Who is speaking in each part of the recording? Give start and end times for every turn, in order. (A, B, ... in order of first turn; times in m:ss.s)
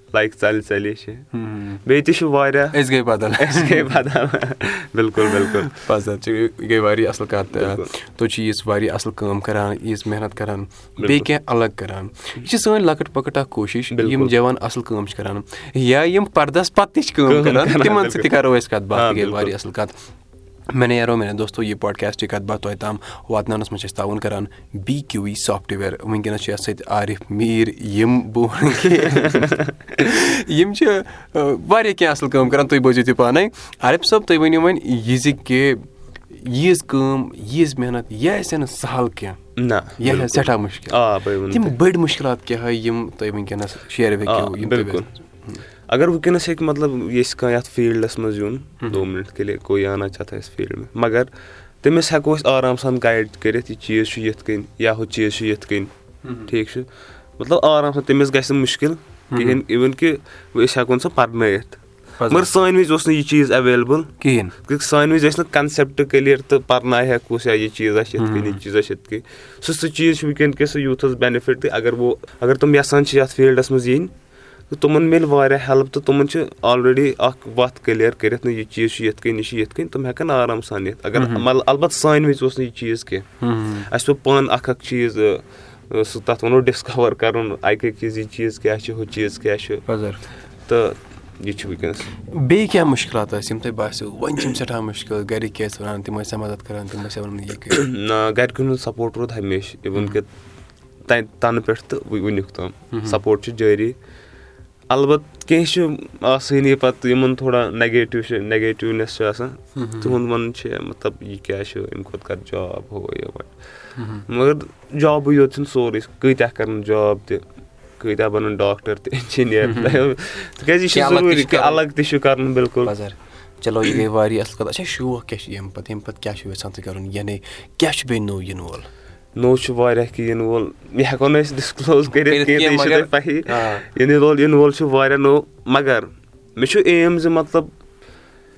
0:00.1-0:01.2 A
0:01.3-0:01.8 B
0:01.8-0:02.8 A
0:02.7-0:03.9 B
0:03.4-0:05.7 A
0:05.3-0:19.9 B
0:07.5-0:07.9 A
0:11.0-0:11.3 A
0:13.9-0:14.3 A
0:17.2-0:19.5 A
0:20.7-0:39.4 B
0:39.6-0:41.8 A
0:40.0-0:45.6 B
0:44.2-0:45.1 A
0:45.9-0:51.3 A
0:51.8-0:55.9 A
0:56.2-0:56.5 B
0:56.5-0:56.9 A
0:57.4-1:04.1 A
0:59.3-0:59.6 B
1:02.2-1:02.5 B
1:04.2-1:04.5 B
1:04.6-1:14.1 A
1:08.2-1:08.6 B
1:14.7-1:23.3 A
1:21.1-1:21.4 B
1:23.4-1:23.9 B
1:23.9-1:29.8 A
1:29.9-1:30.2 B
1:30.7-1:32.1 A
1:32.2-1:37.8 B
1:37.7-1:40.3 A
1:41.0-1:44.0 A
1:42.9-1:43.2 B
1:44.9-1:57.4 A
1:49.7-1:50.2 B
1:54.0-1:54.2 B
1:58.0-2:02.9 A
1:59.6-2:00.0 B
2:00.9-2:01.8 B
2:02.8-2:08.9 B
2:09.4-2:17.7 A
2:12.2-2:13.8 B